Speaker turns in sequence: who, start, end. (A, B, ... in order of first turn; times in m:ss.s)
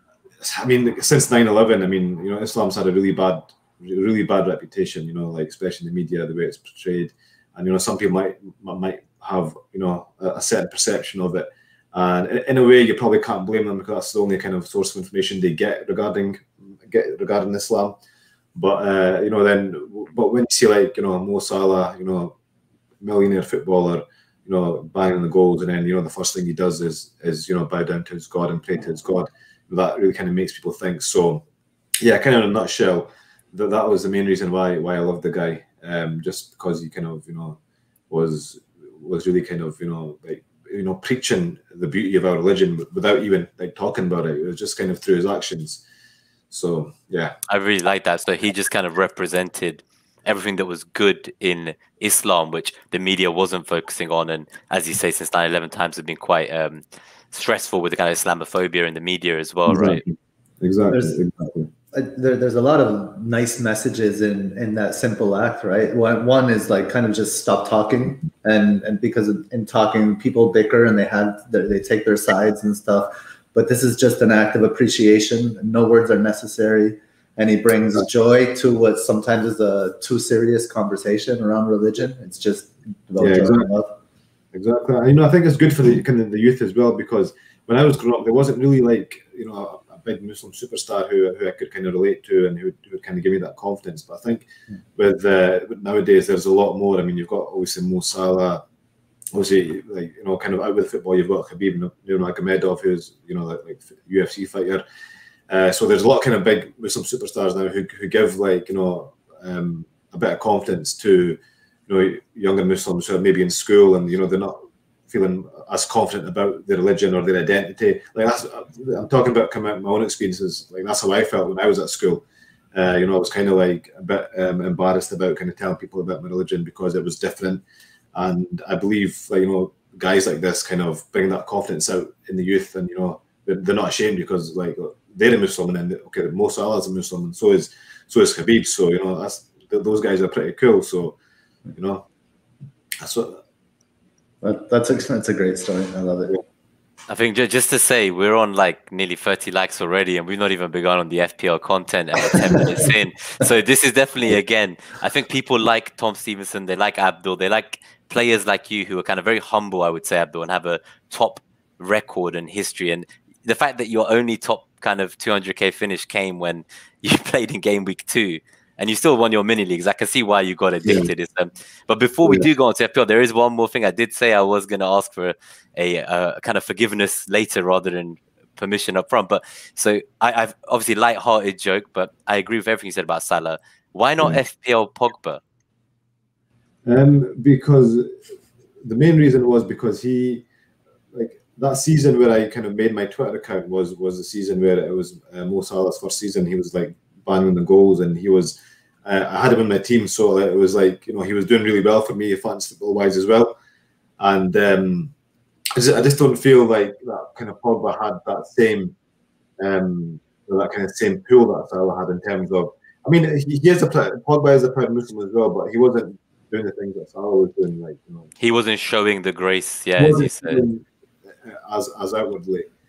0:00.4-0:18.0 A
0:18.5-0:22.3 A
0:23.0-0:31.4 A
0:32.0-0:37.6 A
0:38.1-0:45.8 A
0:46.5-0:47.4 A
0:47.5-1:00.0 B
0:59.7-1:01.7 A
1:00.9-1:01.2 C
1:01.9-1:24.0 C
1:23.2-1:23.7 A
1:24.5-1:38.6 A
1:39.3-1:44.8 A
1:45.5-2:07.6 A
2:08.1-2:21.2 A
2:21.8-2:22.0 A
2:23.0-2:23.4 A
2:24.4-2:26.4 C
2:27.1-3:05.4 B
2:50.8-2:51.1 A
2:52.2-2:52.5 A
3:06.9-3:08.2 A
3:08.8-3:10.4 A
3:11.1-3:23.6 A
3:24.2-3:25.1 A
3:25.8-3:28.9 A
3:29.6-3:38.3 A
3:38.4-3:40.6 B
3:40.0-3:42.7 A